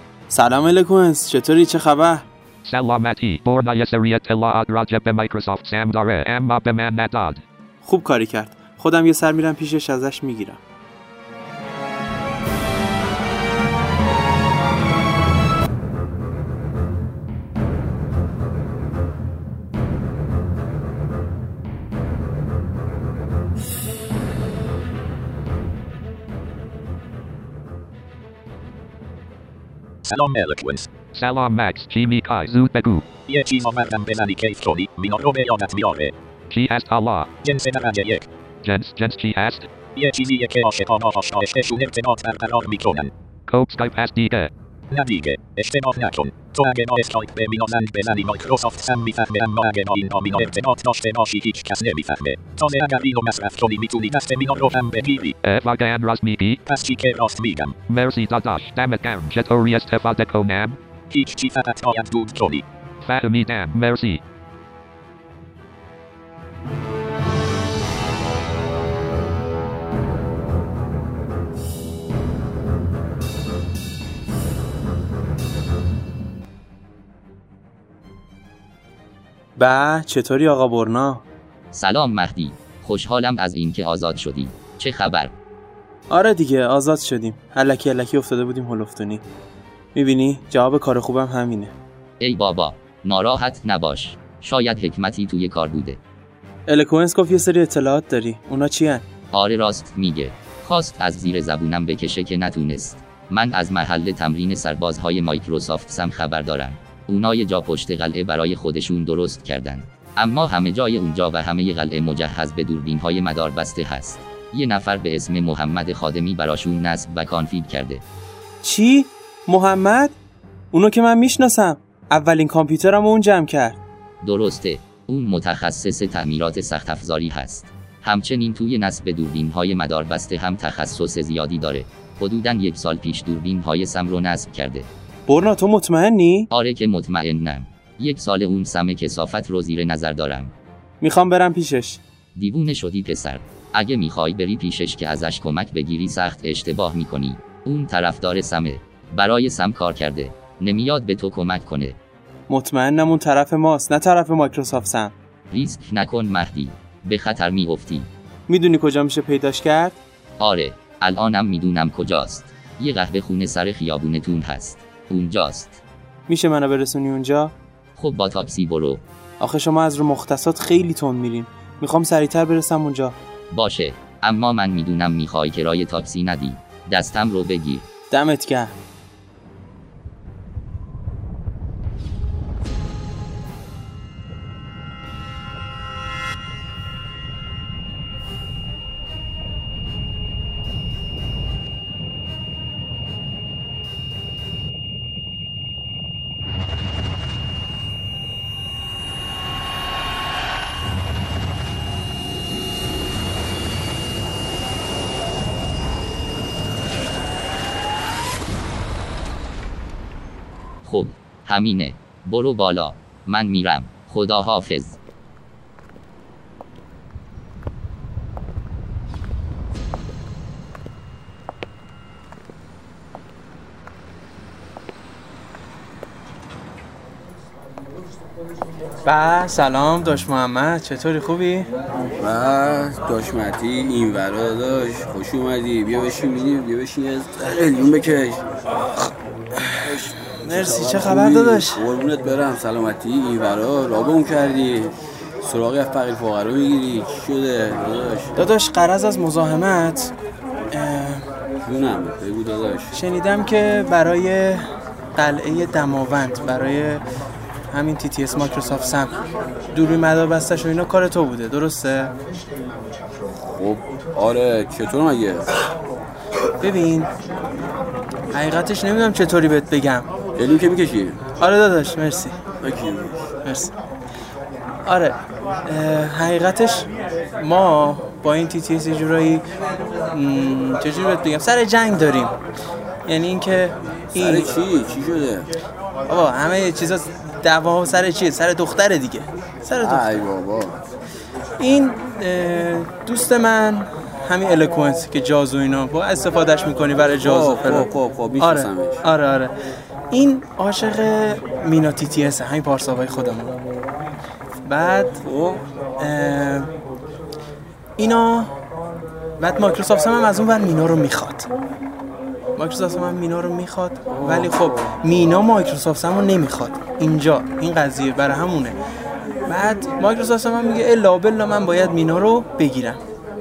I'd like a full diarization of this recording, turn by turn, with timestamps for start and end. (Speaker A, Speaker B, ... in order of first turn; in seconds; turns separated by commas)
Speaker A: 0.3-2.3, Speaker B: 2.6-7.4, Speaker A: 7.8-10.6, Speaker C: 30.1-30.9, Speaker B: 31.1-33.1, Speaker C: 33.3-36.1, Speaker B: 36.5-37.3, Speaker C: 37.4-38.3, Speaker B: 38.6-39.7, Speaker C: 40.0-43.1, Speaker B: 43.5-44.5, Speaker C: 44.9-55.4, Speaker B: 55.4-56.6, Speaker C: 56.7-57.8, Speaker B: 57.9-60.8, Speaker C: 61.1-62.6, Speaker B: 63.0-64.2, Speaker A: 79.6-81.2, Speaker D: 81.7-85.3, Speaker A: 86.1-89.2, Speaker A: 90.0-91.7, Speaker D: 92.2-96.0, Speaker A: 96.7-99.0, Speaker D: 99.3-118.0, Speaker A: 118.6-120.2, Speaker A: 120.7-123.8, Speaker D: 124.2-134.9, Speaker A: 135.3-136.5, Speaker D: 136.5-140.5, Speaker A: 141.0-142.0, Speaker D: 142.4-152.0, Speaker A: 152.5-155.1, Speaker D: 155.5-158.1, Speaker A: 158.5-160.0, Speaker D: 160.4-165.8, Speaker A: 166.3-167.5, Speaker D: 168.0-169.0, Speaker A: 169.4-173.2, Speaker D: 173.5-177.9, Speaker A: 178.1-178.8, Speaker D: 210.8-215.0, Speaker A: 229.1-231.7, Speaker E: 232.2-238.4, Speaker E: 239.8-248.4, Speaker A: 240.4-241.8, Speaker A: 248.4-250.1, Speaker A: 250.7-251.3, Speaker E: 251.6-253.0, Speaker A: 252.9-257.0, Speaker A: 257.7-259.2, Speaker A: 259.7-262.1, Speaker E: 263.5-265.5, Speaker A: 266.6-267.1, Speaker A: 268.3-270.1, Speaker E: 270.4-271.2, Speaker A: 271.4-272.4, Speaker E: 272.6-273.3, Speaker A: 273.4-273.7, Speaker A: 274.9-276.9, Speaker A: 277.4-279.4, Speaker A: 280.1-282.4, Speaker A: 283.1-284.5, Speaker E: 284.1-285.5, Speaker A: 286.1-290.2, Speaker E: 289.8-290.8, Speaker A: 291.6-299.5, Speaker E: 297.2-299.1, Speaker A: 300.1-303.6, Speaker A: 304.7-305.2, Speaker E: 305.2-305.6, Speaker A: 306.0-306.7, Speaker A: 308.0-308.5, Speaker A: 309.4-311.5, Speaker A: 312.6-318.8, Speaker E: 314.1-315.0, Speaker A: 319.5-323.0